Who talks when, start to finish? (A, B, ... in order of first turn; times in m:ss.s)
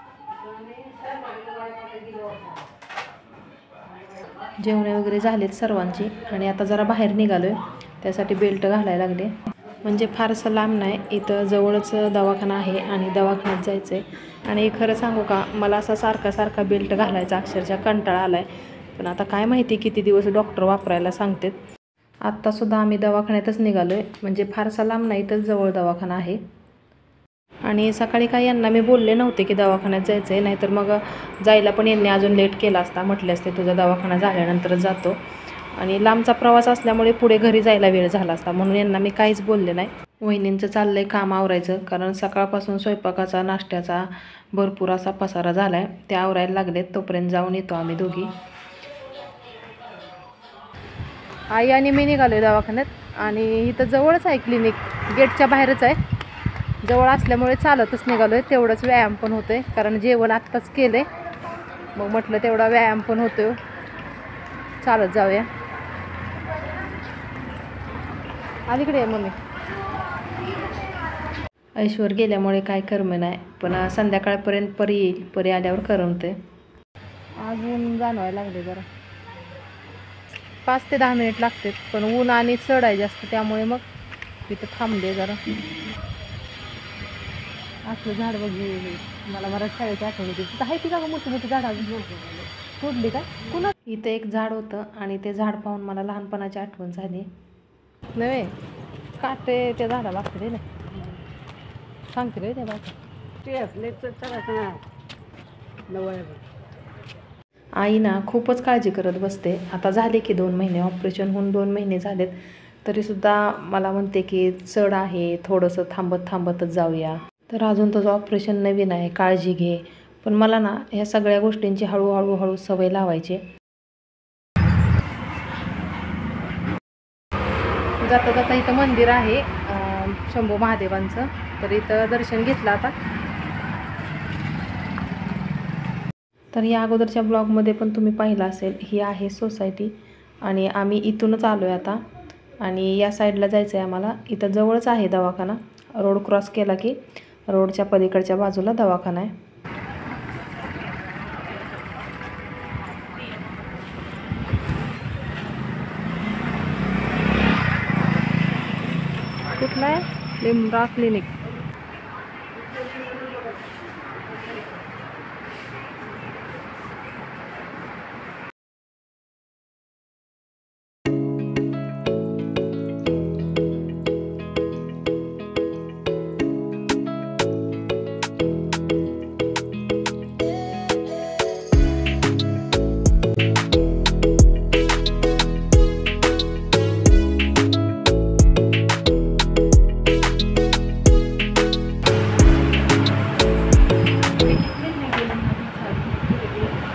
0:00.4-0:02.6 A
0:04.6-0:21.6 B
0:22.3-0:26.4 B
0:27.7-0:35.2 B
0:35.8-0:48.3 B
0:51.5-0:56.0 B
0:56.8-1:01.1 B
1:02.0-1:03.6 B
1:04.8-1:05.5 B
1:08.7-1:09.4 B
1:11.8-1:16.4 B
1:17.4-1:18.9 B
1:20.6-1:23.8 B
1:24.5-1:25.4 B
1:27.9-1:31.9 B
1:31.8-1:32.5 A
1:32.8-1:37.3 B
1:38.2-1:38.5 B
1:39.2-1:40.6 B
1:40.9-1:41.2 A
1:42.1-1:43.0 B
1:43.4-1:44.8 A
1:45.9-1:46.4 A
1:47.8-1:52.3 B
1:52.8-2:03.4 B
2:08.0-2:12.9 B
2:16.5-2:19.9 B
2:20.5-2:22.0 B
2:22.6-2:29.3 B
2:39.5-2:41.3 B
2:42.6-2:43.6 A
3:14.4-3:16.7 B